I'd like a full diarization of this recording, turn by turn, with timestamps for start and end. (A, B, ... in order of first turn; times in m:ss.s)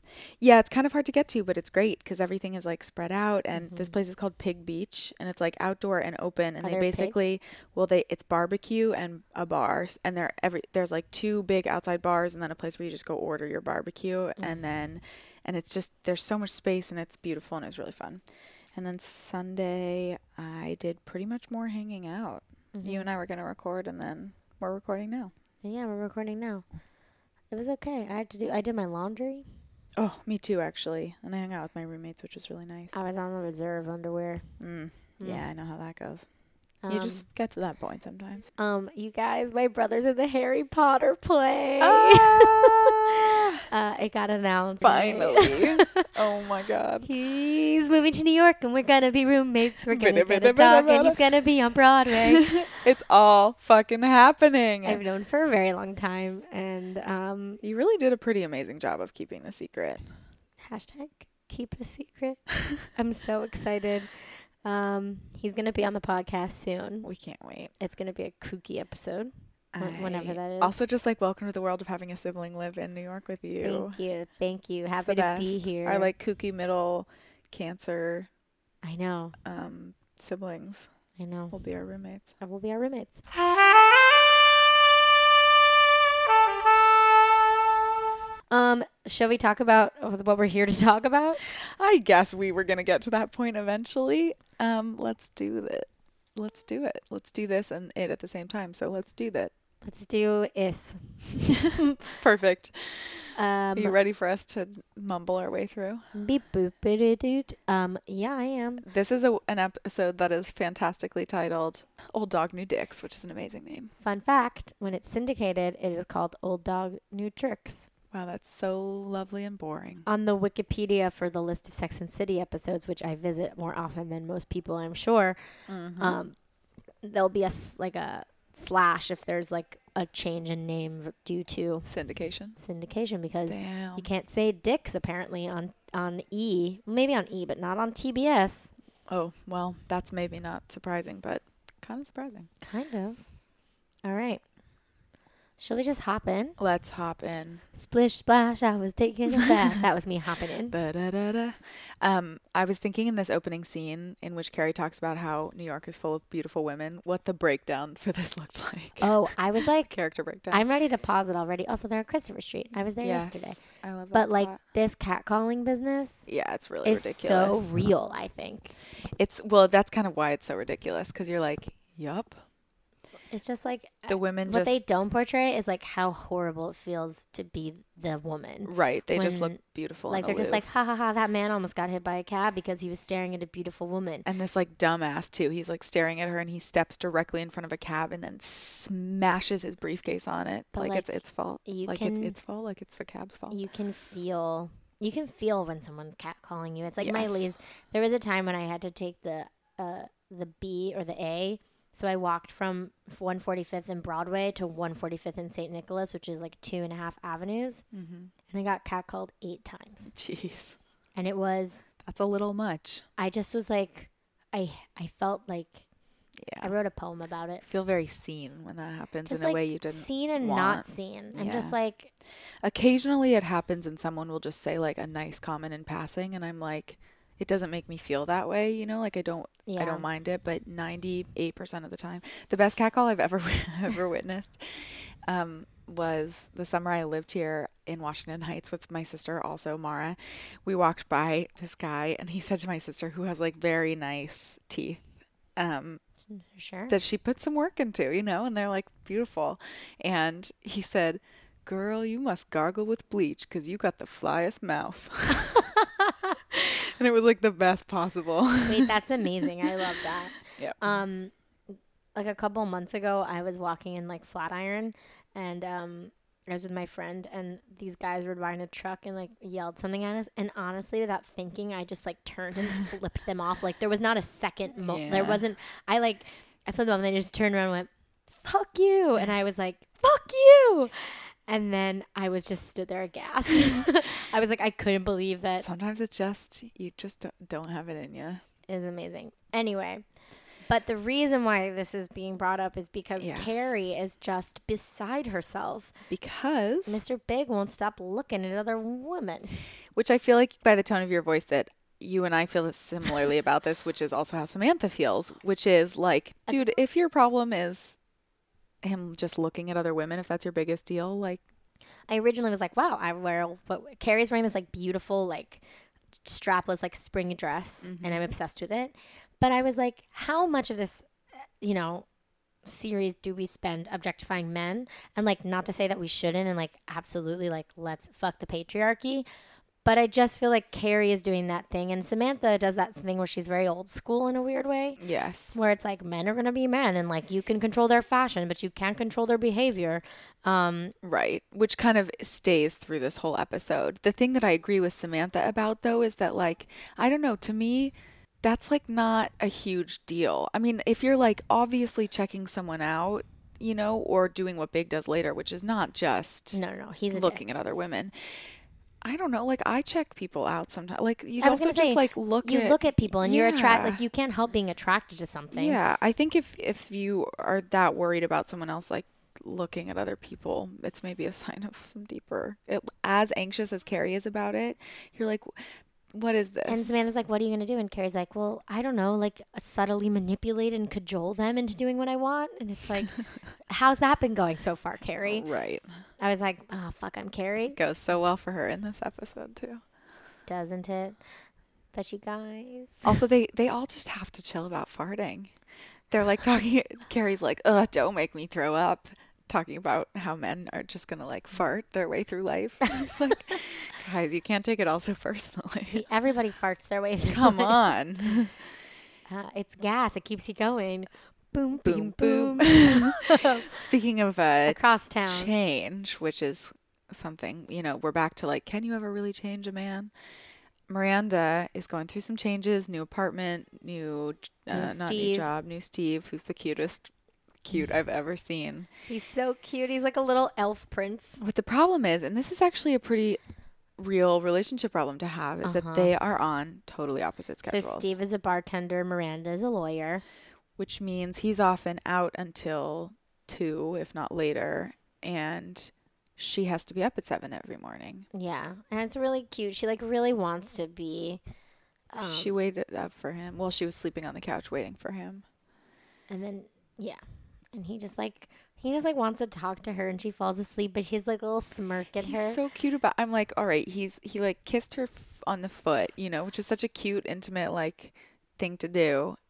0:00.4-0:18.2 A
0:03.5-0:03.9 B
0:06.6-0:07.3 B
0:18.7-0:25.3 A
0:22.7-0:23.1 B
0:25.6-0:26.6 B
0:27.5-0:29.5 B
0:30.0-0:32.9 A
0:32.9-0:34.4 B
0:34.6-0:36.3 A
0:35.2-0:35.4 B
0:36.8-0:37.2 B
0:36.9-0:38.5 A
0:38.6-0:46.1 B
0:41.8-0:43.6 A
0:44.8-0:47.1 A
0:47.0-0:52.5 B
0:49.9-0:51.2 A
0:52.1-0:55.0 A
0:54.8-0:57.6 B
0:57.6-1:00.0 A
1:00.6-1:02.4 B
1:02.9-1:04.1 B
1:04.6-1:07.1 B
1:07.0-1:07.7 A
1:07.8-1:10.8 B
1:09.7-1:14.0 A
1:13.6-1:16.1 B
1:15.0-1:18.3 A
1:18.8-1:19.4 B
1:19.4-1:20.9 A
1:21.2-1:21.6 B
1:21.5-1:22.3 A
1:22.4-1:23.2 B
1:28.5-1:31.4 B
1:31.6-1:39.5 A
1:39.8-1:42.0 B
1:41.4-1:46.0 A
1:43.3-1:44.0 B
1:46.1-1:48.8 B
1:48.8-1:53.9 A
1:54.0-1:57.9 B
1:58.1-2:00.0 A
2:00.0-2:05.4 B
2:05.7-2:06.2 A
2:06.0-2:06.3 B
2:07.0-2:11.9 B
2:11.8-2:12.6 A
2:12.6-2:18.7 B
2:13.5-2:14.1 A
2:19.1-2:22.5 A
2:22.6-2:23.2 B
2:24.0-2:24.4 B
2:25.6-2:26.6 B
2:26.6-2:27.6 A
2:27.7-2:30.7 B
2:30.7-2:40.6 A
2:39.0-2:39.9 B
2:40.5-2:43.6 B
2:43.0-2:44.6 A
2:44.1-2:46.3 B
2:46.3-2:47.8 A
2:46.8-2:48.7 B
2:49.2-2:52.4 A
2:53.3-3:04.3 B
2:54.1-2:54.8 A
2:58.6-3:00.6 A
3:04.2-3:13.6 A
3:10.7-3:11.1 B
3:11.6-3:12.4 B
3:13.5-3:27.8 B
3:17.0-3:17.5 A
3:27.9-3:28.3 A
3:28.5-3:30.1 B
3:30.1-3:30.8 A
3:31.2-3:31.8 B
3:32.0-3:33.0 A
3:33.2-3:35.8 B
3:36.4-3:36.7 A
3:36.6-3:37.6 B
3:37.6-3:41.7 A
3:39.2-3:42.1 B
3:42.6-4:05.0 A
3:49.7-3:50.1 B
4:05.6-4:06.0 A
4:06.3-4:06.9 B
4:06.9-4:15.7 A
4:16.0-4:16.3 B
4:16.5-4:19.9 A
4:18.6-4:21.3 B
4:20.6-4:21.0 A
4:22.1-4:45.6 B
4:34.8-4:35.4 A
4:45.6-4:48.4 A
4:48.7-4:50.0 B
4:50.6-4:55.9 B
4:53.2-4:53.7 A
4:56.1-4:57.0 A
4:56.9-4:59.6 B
4:59.9-5:08.0 A
5:08.8-5:11.4 A
5:12.1-5:15.6 B
5:16.2-5:21.1 B
5:17.8-5:18.3 A
5:21.6-5:22.0 B
5:22.6-5:29.2 B
5:29.8-5:35.0 B
5:35.0-5:35.6 A
5:35.5-5:40.9 B
5:41.0-5:58.4 A
5:56.5-5:57.4 B
5:59.0-6:04.0 A
6:01.4-6:05.8 B
6:05.5-6:16.9 A
6:16.7-6:23.2 B
6:23.7-6:25.5 B
6:25.2-6:25.9 A
6:26.2-6:27.8 B
6:27.7-6:29.8 A
6:30.5-6:31.2 B
6:31.9-6:33.2 B
6:33.0-6:35.5 A
6:36.1-6:46.0 A
6:45.9-6:47.8 B
6:47.2-6:48.5 A
6:49.3-6:53.8 B
6:51.8-7:00.1 A
6:54.7-6:55.5 B
7:00.9-7:07.1 A
7:04.7-7:05.5 B
7:07.6-7:08.9 A
7:09.1-7:11.4 B
7:11.4-7:13.4 A
7:14.0-7:18.2 A
7:15.6-7:16.1 B
7:17.6-7:20.2 B
7:20.8-7:28.3 A
7:28.3-7:31.4 B
7:32.1-7:32.5 B
7:32.2-7:35.4 A
7:36.3-7:37.2 B
7:37.7-7:42.6 B
7:42.2-7:49.4 A